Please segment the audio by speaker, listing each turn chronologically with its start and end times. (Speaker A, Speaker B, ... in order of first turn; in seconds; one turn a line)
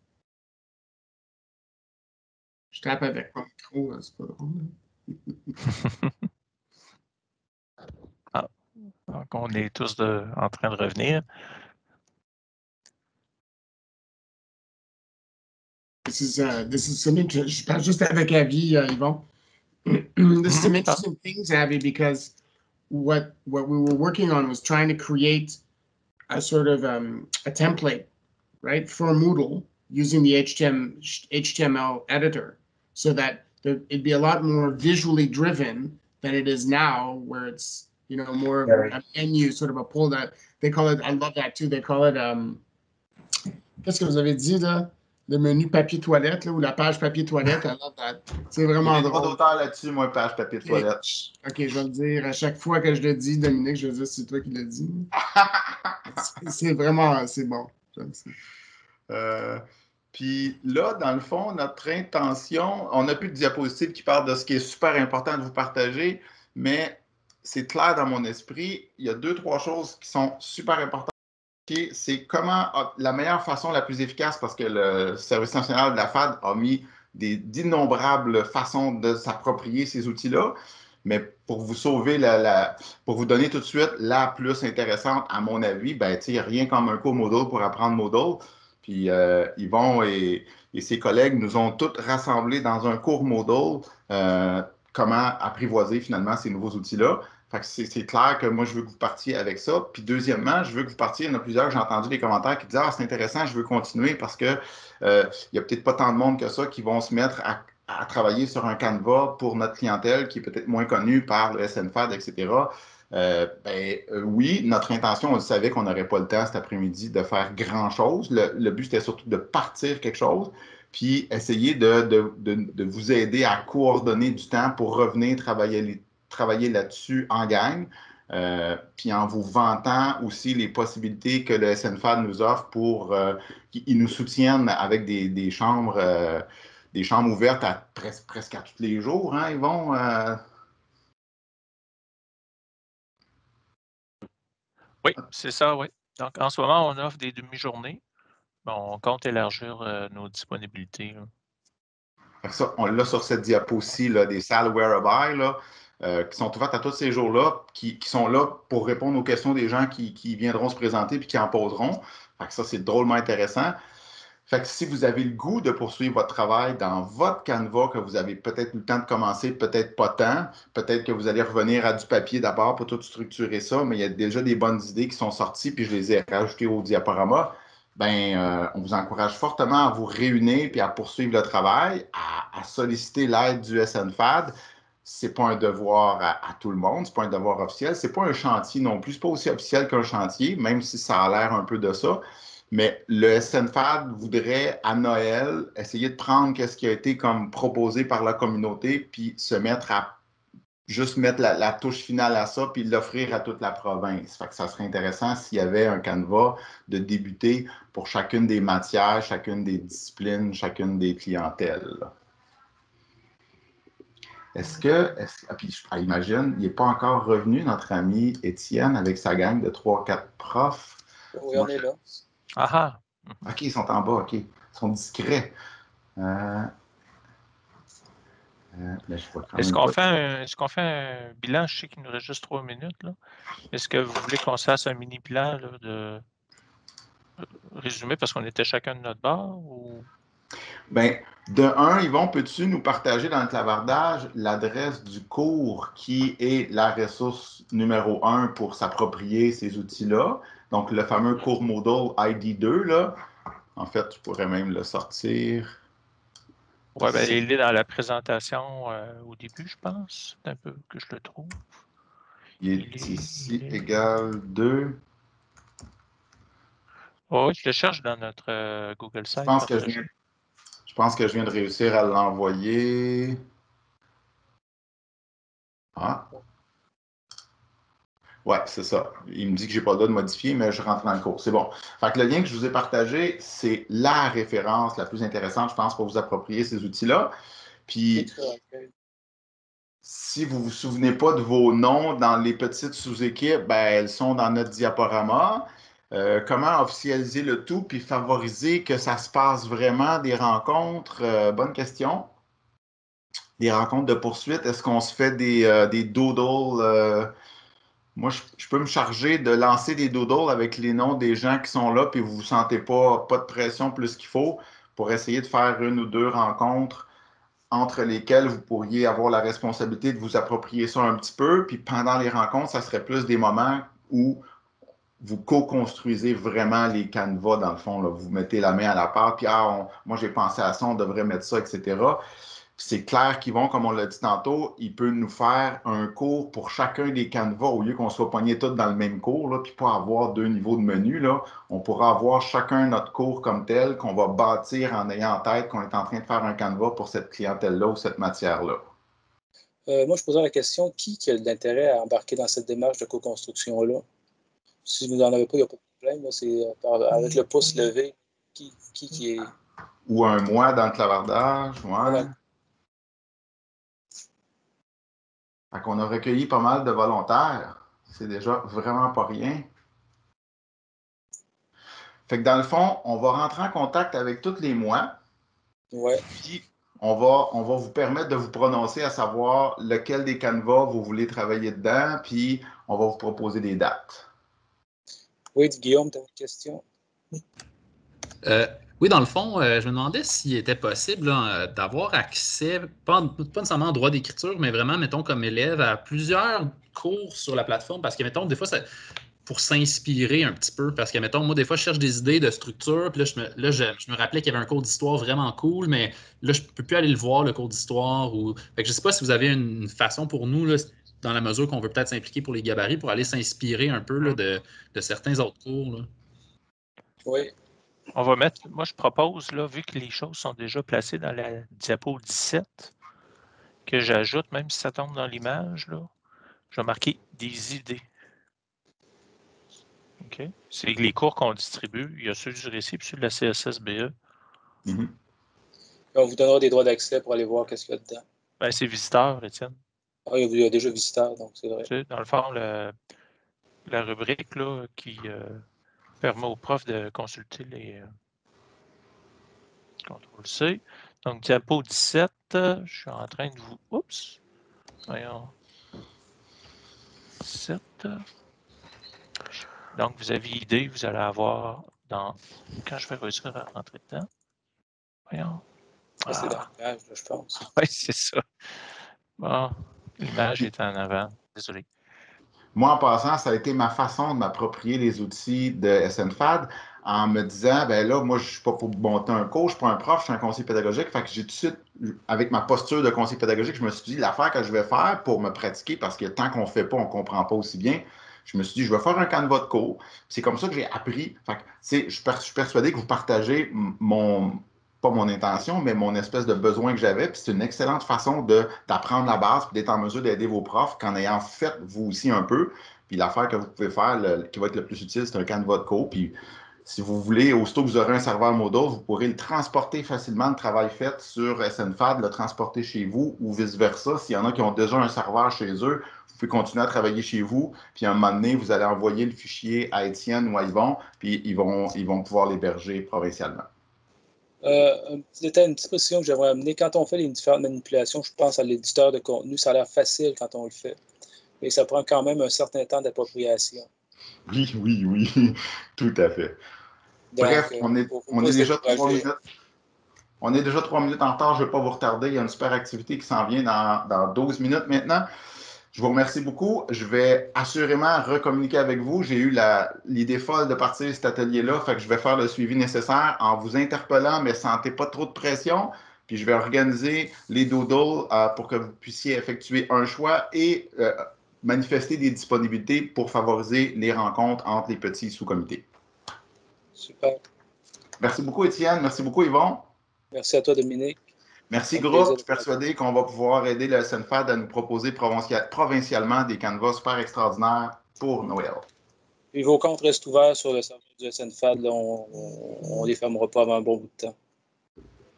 Speaker A: 2.7-5.5
Speaker B: 9.1-11.2
Speaker A: 16.1-19.2
Speaker A: 19.8-22.3
Speaker B: 20.5-21.0
Speaker A: 22.9-25.6
Speaker A: 26.3-28.1
Speaker A: 28.6-42.6
Speaker A: 43.8-49.4
Speaker C: 48.8-51.0
Speaker A: 50.6-55.1
Speaker A: 56.2-58.3
Speaker C: 59.1-59.6
Speaker C: 60.1-71.1
Speaker C: 71.7-140.4
Speaker B: 145.0-148.0
Speaker B: 148.6-151.3
Speaker C: 152.4-163.7
Speaker C: 164.5-200.1
Speaker C: 200.9-212.1
Speaker C: 214.5-221.0
Speaker D: 221.3-222.0
Speaker B: 222.6-223.4
Speaker C: 223.4-225.5
Speaker C: 226.2-226.7
Speaker C: 228.7-229.9
Speaker B: 229.5-233.2
Speaker B: 233.7-236.2
Speaker B: 237.7-240.1
Speaker C: 240.9-253.2
Speaker C: 253.8-255.8
Speaker B: 256.9-261.6
Speaker C: 257.0-257.4
Speaker C: 262.6-265.0
Speaker B: 262.7-263.8
Speaker B: 267.3-270.1
Speaker C: 269.4-270.1
Speaker C: 270.9-273.4
Speaker C: 275.9-276.3
Speaker C: 278.4-287.3
Speaker C: 287.9-288.3
Speaker D: 288.1-288.9
Speaker C: 290.0-302.3
Speaker C: 303.6-307.3
Speaker C: 308.1-317.1
Speaker C: 317.7-324.4
Speaker C: 325.2-332.2
Speaker C: 332.8-348.9
Speaker D: 349.9-354.0
Speaker D: 354.8-359.5
Speaker C: 360.1-362.3
Speaker C: 365.7-369.6
Speaker C: 372.3-375.1
Speaker D: 375.9-376.3
Speaker C: 376.3-384.2
Speaker D: 385.5-386.8
Speaker E: 388.4-398.9
Speaker E: 399.4-416.1
Speaker D: 417.2-417.5
Speaker B: 418.1-422.9
Speaker B: 423.9-426.1
Speaker B: 426.7-428.0
Speaker B: 430.2-434.1
Speaker C: 434.9-435.1
Speaker D: 436.1-438.2
Speaker B: 438.6-439.8
Speaker D: 440.3-441.9
Speaker B: 441.8-442.9
Speaker B: 443.9-445.6
Speaker B: 446.2-448.1
Speaker B: 450.0-454.4
Speaker B: 455.1-455.5
Speaker B: 457.4-458.2
Speaker B: 459.9-464.3
Speaker B: 465.3-465.6
Speaker D: 466.2-467.6
Speaker B: 466.3-466.6
Speaker B: 467.6-468.4
Speaker B: 469.4-471.9
Speaker C: 472.7-506.3
Speaker C: 506.8-523.7
Speaker D: 524.6-531.0
Speaker D: 531.6-533.9
Speaker C: 534.5-536.6
Speaker D: 537.3-539.2
Speaker C: 537.4-539.4
Speaker C: 540.4-545.3
Speaker C: 545.9-565.8
Speaker D: 567.0-567.4
Speaker C: 568.2-569.9
Speaker D: 570.3-571.2
Speaker C: 571.7-578.9
Speaker D: 571.9-572.7
Speaker D: 579.5-584.3